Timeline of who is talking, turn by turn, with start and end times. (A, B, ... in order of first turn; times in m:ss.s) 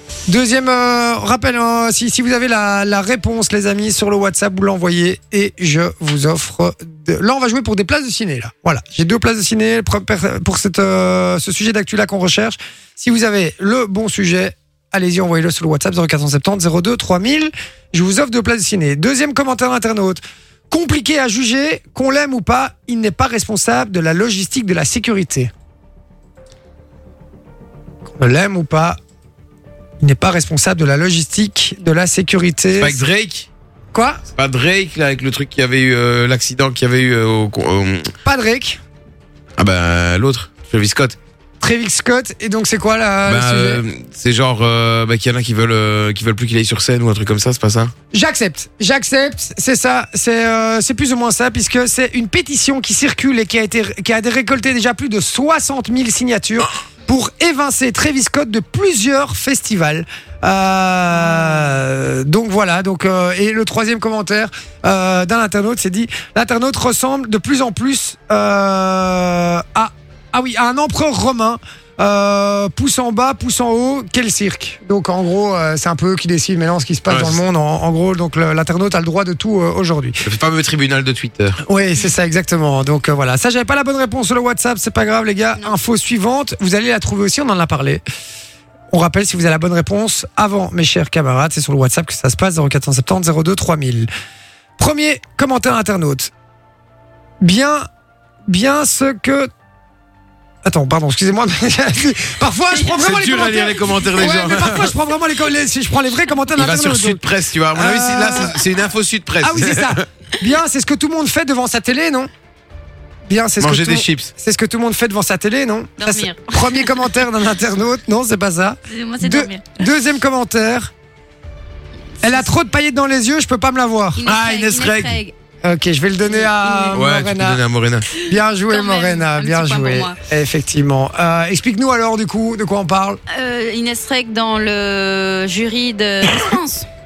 0:00.3-0:25.5 A
0:28.2-0:29.0 A
0:30.0-0:33.0 A
0:32.7-0:33.5 B
0:33.9-0:34.2 A
0:34.4-0:38.1 B
0:38.2-0:38.8 A
0:39.6-0:41.2 B
0:41.6-0:43.8 A
0:43.3-0:47.9 B
0:48.1-1:20.2 A
1:01.2-1:01.8 C
1:17.1-1:17.4 B
1:20.2-1:21.6 B
1:21.7-1:28.0 A
1:28.9-1:34.1 A
1:34.8-1:36.3 A
1:37.4-1:37.9 A
1:38.5-1:39.5 A
1:40.6-1:48.6 A
1:42.8-1:45.0 B
1:46.6-1:50.0 B
1:49.4-1:52.3 A
1:53.3-2:00.9 A
1:53.6-1:54.3 B
1:56.0-1:57.3 C
1:58.9-1:59.9 C
2:02.2-2:04.3 A
2:02.2-2:02.5 C
2:04.2-2:05.4 C
2:04.2-2:05.2 B
2:05.6-2:07.6 A
2:06.2-2:07.0 C
2:06.9-2:08.1 B
2:08.2-2:10.2 C
2:08.2-2:13.2 A
2:13.3-2:16.9 C